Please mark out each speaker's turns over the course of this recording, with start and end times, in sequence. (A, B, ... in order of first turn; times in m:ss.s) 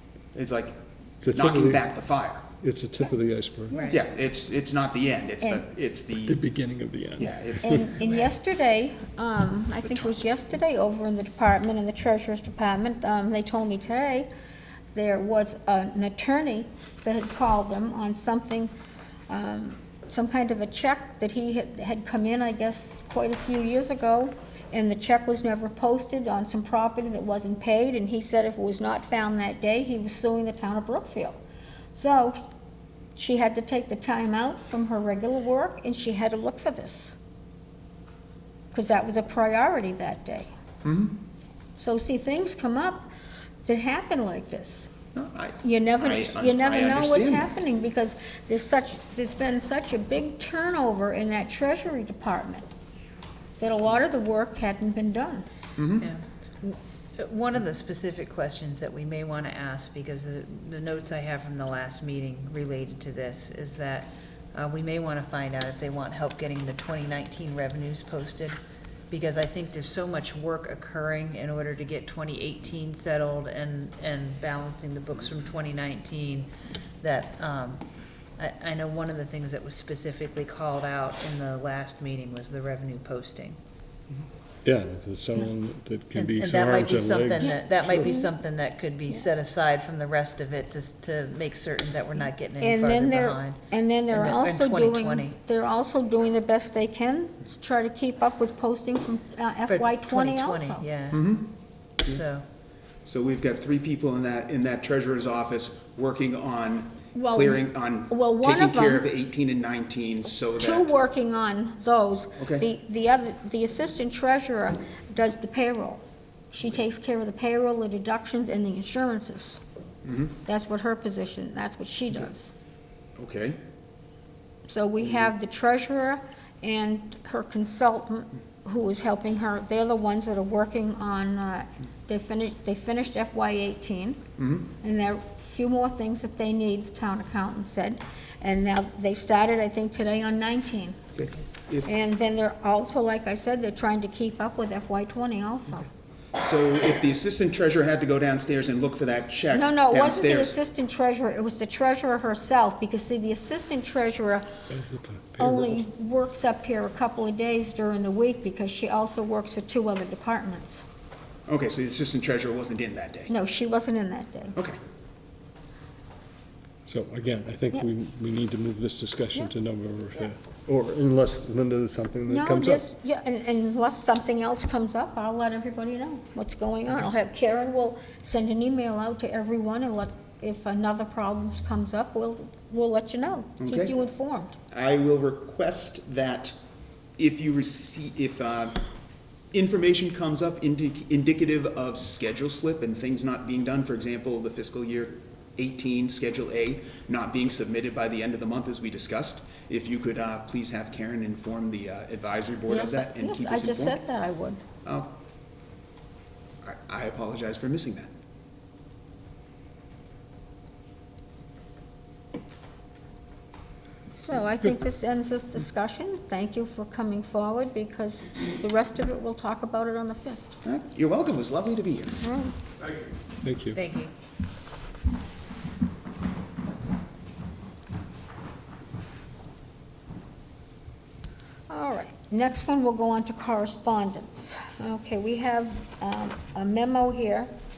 0:00.3-0:02.5 A
0:01.2-0:01.9 B
0:02.6-0:03.8 B
0:03.7-0:04.0 C
0:03.9-0:06.4 A
0:06.2-0:07.9 B
0:07.2-0:07.9 A
0:07.6-0:14.3 D
0:08.0-0:08.3 C
0:09.7-0:10.2 A
0:14.9-0:18.7 D
0:19.3-0:31.4 D
0:31.9-0:32.4 D
0:33.2-0:37.1 D
0:38.7-0:40.5 D
0:40.8-0:41.2 A
0:41.8-0:43.1 D
0:43.6-0:44.9 D
0:45.1-0:47.5 A
0:45.6-0:52.7 D
0:53.6-0:55.4 D
0:55.8-0:56.1 A
0:56.0-1:08.6 C
1:09.1-1:16.5 C
1:17.0-1:17.8 C
1:18.4-1:23.6 C
1:24.6-1:28.1 B
1:26.2-1:33.6 C
1:27.4-1:28.3 D
1:32.6-1:40.8 D
1:34.1-1:35.4 C
1:39.7-1:41.3 C
1:41.1-1:41.5 A
1:42.0-1:42.4 C
1:43.0-1:50.9 A
1:47.1-1:49.0 D
1:50.6-1:59.6 D
1:52.4-1:52.7 A
2:00.0-2:00.4 A
2:00.5-2:02.5 D
2:03.2-2:03.6 A
2:04.7-2:14.2 D
2:14.4-2:14.7 A
2:14.8-2:21.0 D
2:21.2-2:21.9 A
2:21.8-2:25.9 D
2:26.4-2:30.6 A
2:29.5-2:34.5 D
2:34.7-2:35.8 B
2:35.4-2:40.8 D
2:41.5-2:43.3 A
2:43.3-2:44.6 D
2:46.8-2:52.9 B
2:52.3-3:04.6 D
3:03.6-3:03.9 A
3:04.7-3:06.6 A
3:07.2-3:08.8 A
3:09.5-3:24.0 A
3:22.7-3:24.6 D
3:24.8-3:25.1 A
3:26.6-3:28.1 A
3:34.2-3:40.6 D
3:40.6-3:42.2 A
3:42.2-3:42.6 D
3:43.4-3:43.8 B
3:43.7-3:44.1 C
3:51.7-3:57.5 D